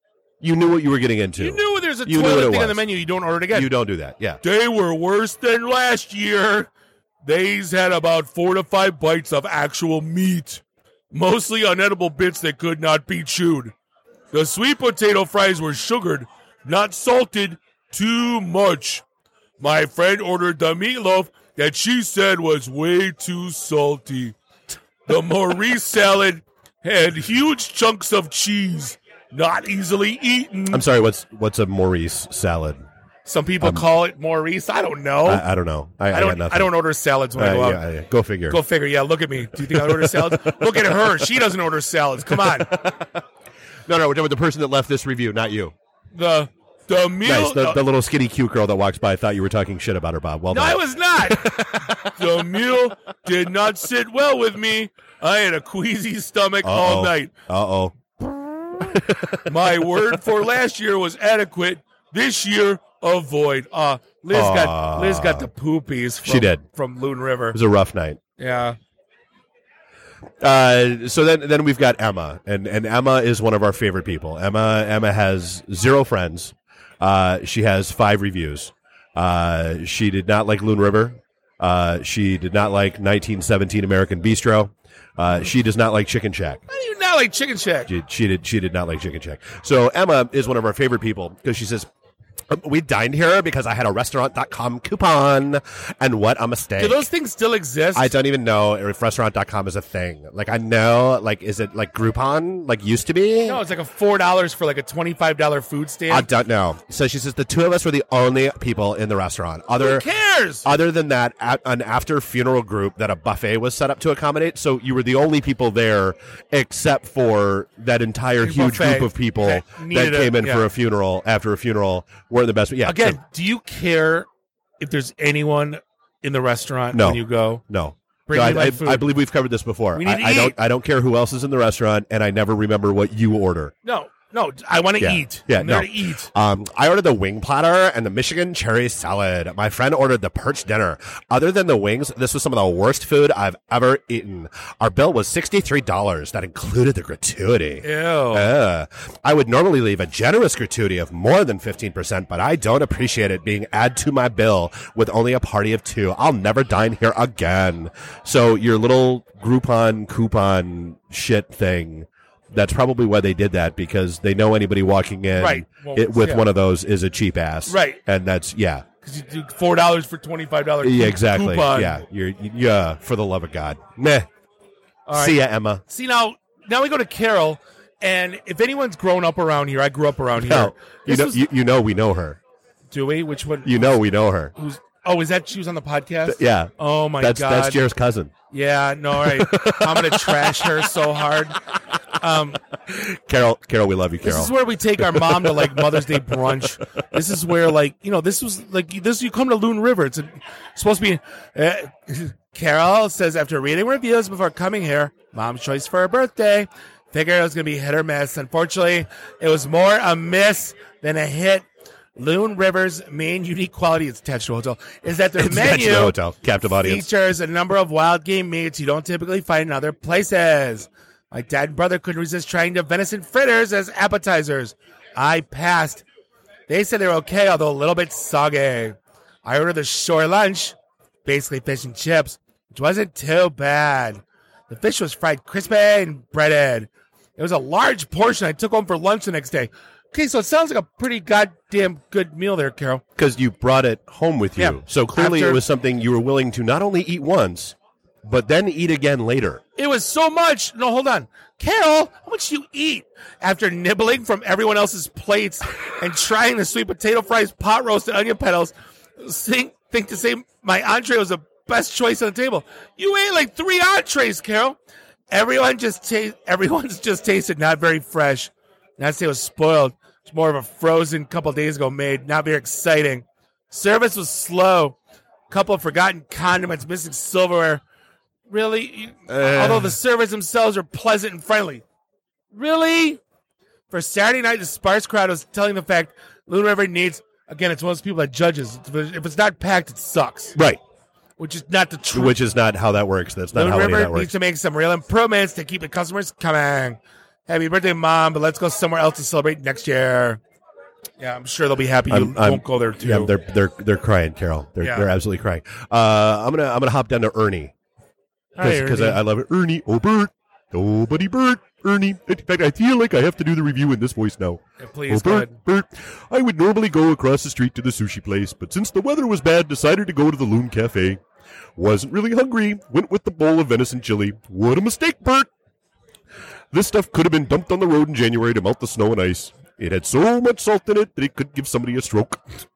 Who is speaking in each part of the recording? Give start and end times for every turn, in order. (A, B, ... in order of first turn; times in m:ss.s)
0:00.4-0:02.8 A
0:01.4-0:03.7 B
0:03.5-0:04.4 A
0:04.4-0:06.7 B
0:07.2-0:13.7 B
0:14.3-0:19.0 B
0:19.6-0:24.4 B
0:25.1-0:30.9 B
0:30.7-0:32.8 A
0:33.3-0:35.4 B
0:35.3-0:36.7 A
0:36.1-0:37.8 B
0:37.4-0:38.6 A
0:38.5-0:42.8 B
0:39.6-0:41.2 A
0:42.3-0:43.2 A
0:43.9-0:45.7 A
0:46.1-0:47.8 B
0:47.2-0:52.1 A
0:50.5-0:57.3 B
0:56.6-0:58.0 A
0:58.3-1:07.6 B
0:58.7-0:59.5 A
1:04.3-1:05.5 A
1:06.2-1:06.6 A
1:07.5-1:08.2 A
1:08.4-1:08.8 B
1:10.4-1:26.6 A
1:26.7-1:27.9 B
1:27.9-1:31.9 A
1:32.5-1:37.1 A
1:36.8-1:38.1 B
1:38.0-1:43.6 A
1:43.4-1:46.3 B
1:46.1-1:50.0 A
1:49.8-1:50.7 B
1:50.6-2:03.2 A
1:58.4-2:00.7 B
2:02.8-2:04.3 B
2:04.8-2:07.6 B
2:06.9-2:13.7 A
2:08.3-2:09.1 B
2:10.0-2:10.6 B
2:13.8-2:16.3 B
2:15.0-2:48.8 A
2:27.8-2:28.5 B
2:45.4-2:46.5 B
2:47.7-2:48.0 B
2:49.0-2:52.0 B
2:50.8-2:54.3 A
2:55.1-3:01.4 B
2:55.2-2:55.8 A
3:00.4-3:02.4 A
3:02.9-3:03.9 B
3:03.6-3:04.5 A
3:04.6-3:07.8 B
3:06.3-3:08.3 A
3:08.5-3:11.6 B
3:09.2-3:11.0 A
3:12.2-3:12.6 B
3:12.9-3:16.5 A
3:14.2-3:31.6 B
3:32.2-3:36.2 B
3:35.4-3:37.1 A
3:36.8-3:46.0 B
3:46.7-4:03.0 B
4:03.2-4:09.6 A
4:04.6-4:05.6 B
4:09.8-4:24.8 B
4:25.3-4:35.0 B
4:35.5-4:37.8 B
4:38.5-4:41.8 B
4:39.3-4:40.0 A
4:42.5-4:43.2 B
4:43.9-4:50.6 B
4:50.6-4:50.8 A
4:51.4-4:52.4 B
4:52.1-4:54.3 A
4:53.5-5:00.4 B
5:01.2-5:03.3 B
5:02.1-5:07.7 A
5:04.8-5:05.1 B
5:08.6-5:09.2 B
5:08.6-5:21.2 A
5:14.8-5:15.6 B
5:21.8-5:25.5 A
5:26.7-5:32.4 A